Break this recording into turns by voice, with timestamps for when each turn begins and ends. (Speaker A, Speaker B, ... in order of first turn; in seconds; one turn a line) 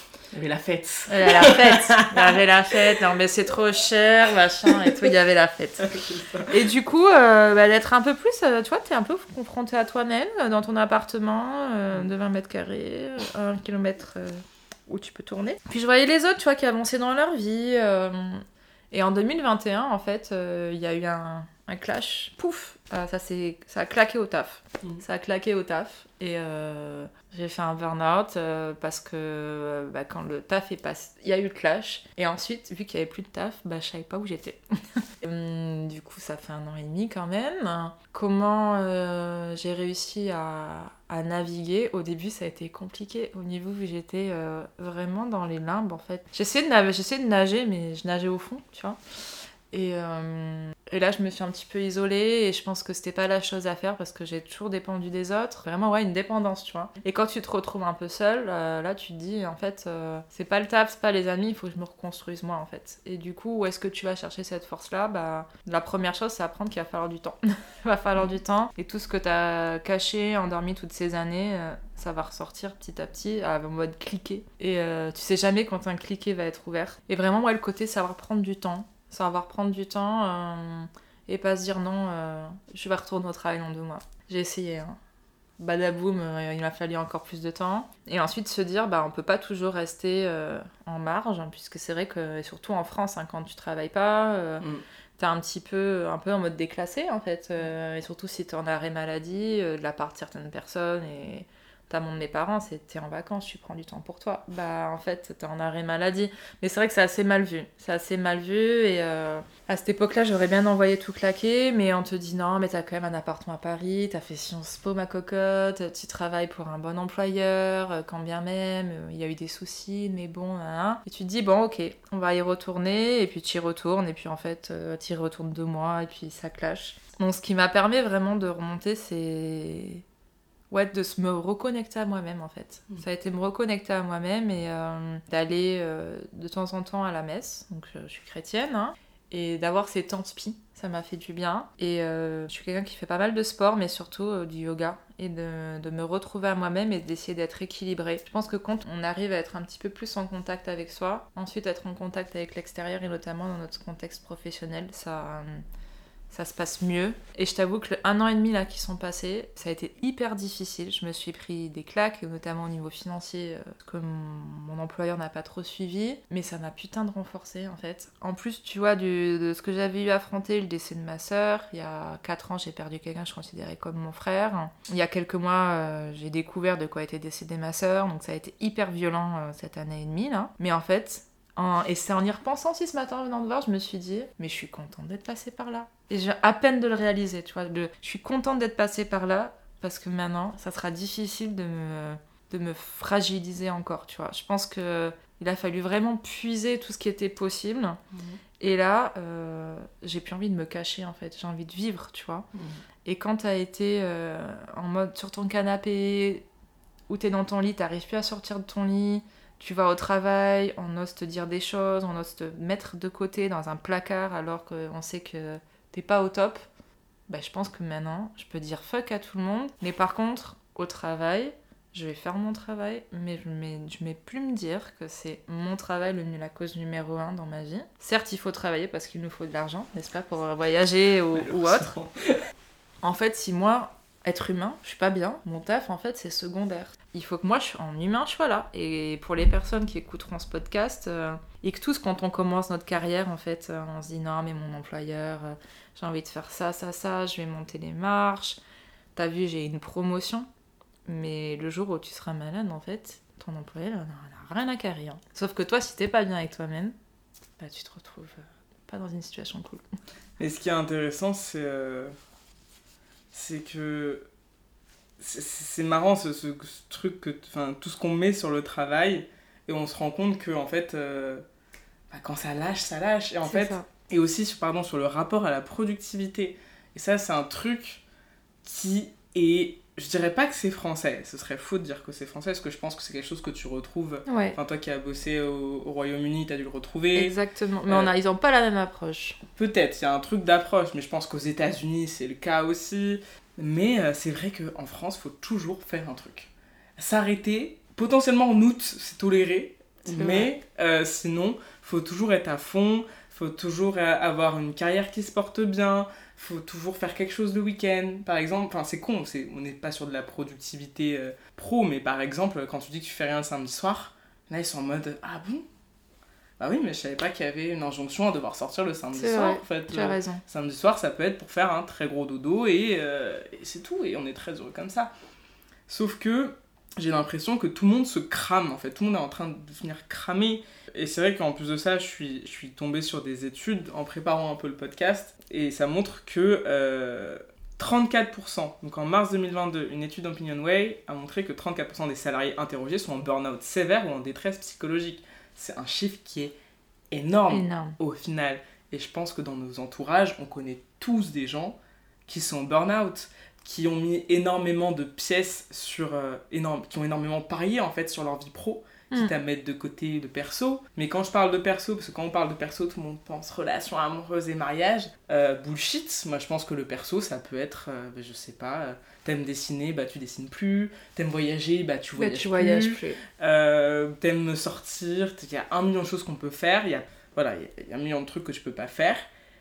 Speaker A: 0.3-3.1
Speaker B: 1.1-5.9
Speaker A: 5.8-6.5
Speaker B: 6.5-49.0
Speaker B: 49.7-85.0
Speaker B: 85.6-94.6
Speaker B: 95.2-130.0
Speaker B: 130.7-155.6
Speaker B: 156.3-198.0
Speaker A: 198.1-198.4
Speaker B: 198.6-202.5
Speaker B: 203.1-206.4
Speaker B: 207.1-216.7
Speaker B: 217.3-231.9
Speaker A: 231.3-232.4
Speaker B: 233.0-248.6
Speaker B: 249.2-250.5
Speaker B: 251.1-256.9
Speaker B: 257.6-259.8
Speaker A: 260.4-262.1
Speaker A: 263.3-264.2
Speaker A: 265.2-271.4
Speaker A: 272.1-278.0
Speaker B: 273.5-273.9
Speaker A: 278.6-287.4
Speaker B: 284.3-284.6
Speaker B: 287.1-289.4
Speaker A: 287.9-288.1
Speaker A: 289.5-315.6
Speaker B: 300.1-300.5
Speaker A: 316.6-325.1
Speaker B: 319.1-320.4
Speaker A: 325.9-346.5
Speaker A: 347.1-379.3
Speaker B: 347.5-348.0
Speaker B: 372.2-373.2